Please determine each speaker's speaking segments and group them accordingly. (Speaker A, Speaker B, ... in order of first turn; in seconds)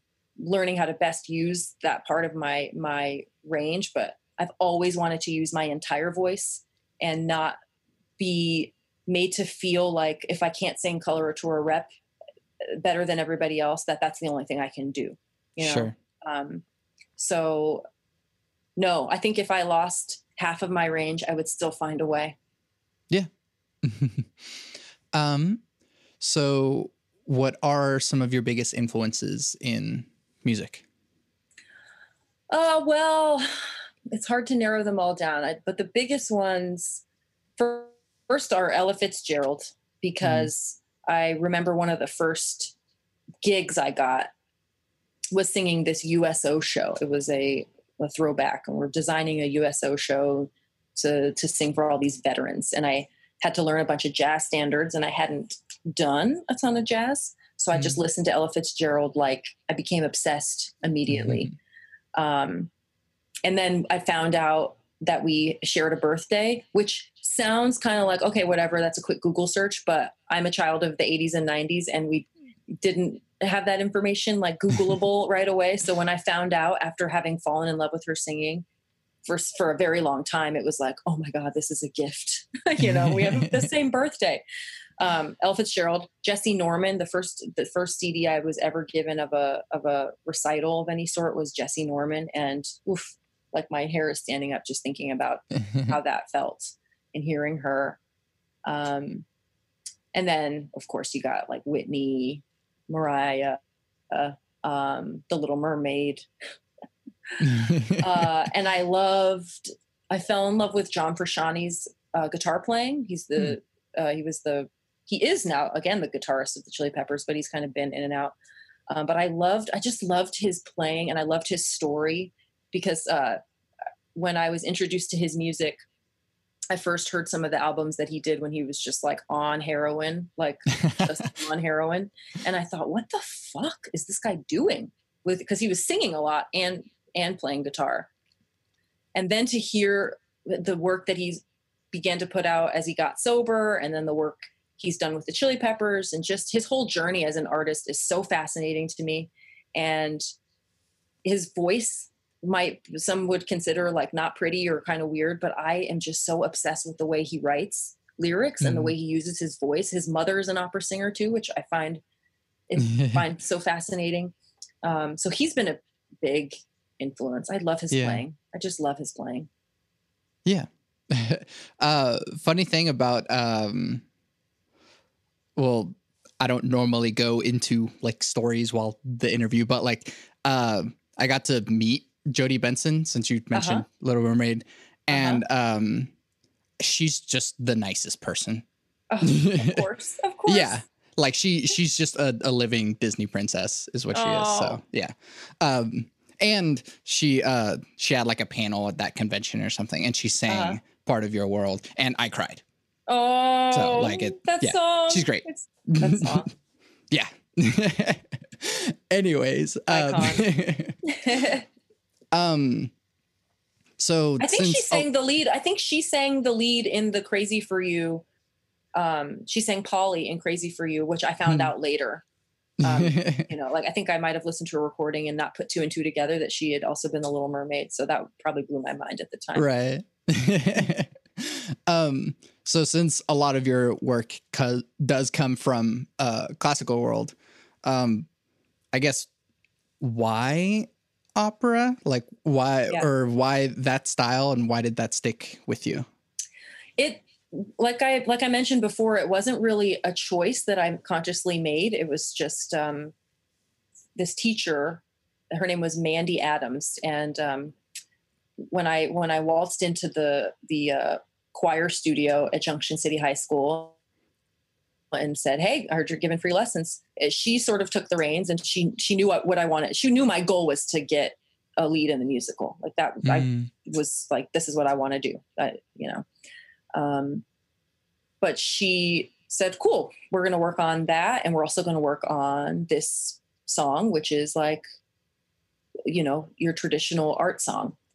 Speaker A: 0.4-7.6, 8.2-11.9, 12.7-16.6, 17.2-17.8, 18.8-22.4, 32.5-37.0, 37.6-42.7, 43.4-44.3, 45.3-61.5, 62.1-62.7, 63.4-78.6, 79.2-84.4, 85.0-98.0, 98.6-99.2, 100.1-103.6, 104.1-106.3, 107.3-118.3, 118.9-123.4, 124.1-125.8, 126.7-138.1, 139.1-150.3, 151.2-162.0, 162.7-169.5, 183.5-183.8, 185.1-185.4, 189.1-190.8, 194.1-194.8, 200.5-200.8, 203.1-206.5, 209.9-210.4, 211.0-211.6, 214.4-218.2, 218.9-222.2, 222.8-229.7, 247.0-253.1, 254.2-257.7, 258.7-263.9, 265.1-276.2, 276.9-277.4, 278.4-284.8, 286.1-288.0
Speaker B: 15.6-15.9, 23.8-25.6, 26.2-30.8, 40.2-40.5, 61.1-61.5, 82.8-83.7, 107.4-108.2, 158.6-158.9, 162.8-163.2, 167.9-168.2, 170.4-174.0, 175.6-186.1, 186.8-188.6, 189.2-189.8, 190.5-202.6, 203.7-206.4, 207.1-211.0, 212.3-212.9, 214.0-215.1, 222.8-223.5, 229.6-238.3, 238.9-239.3, 240.0-246.1, 273.2-273.7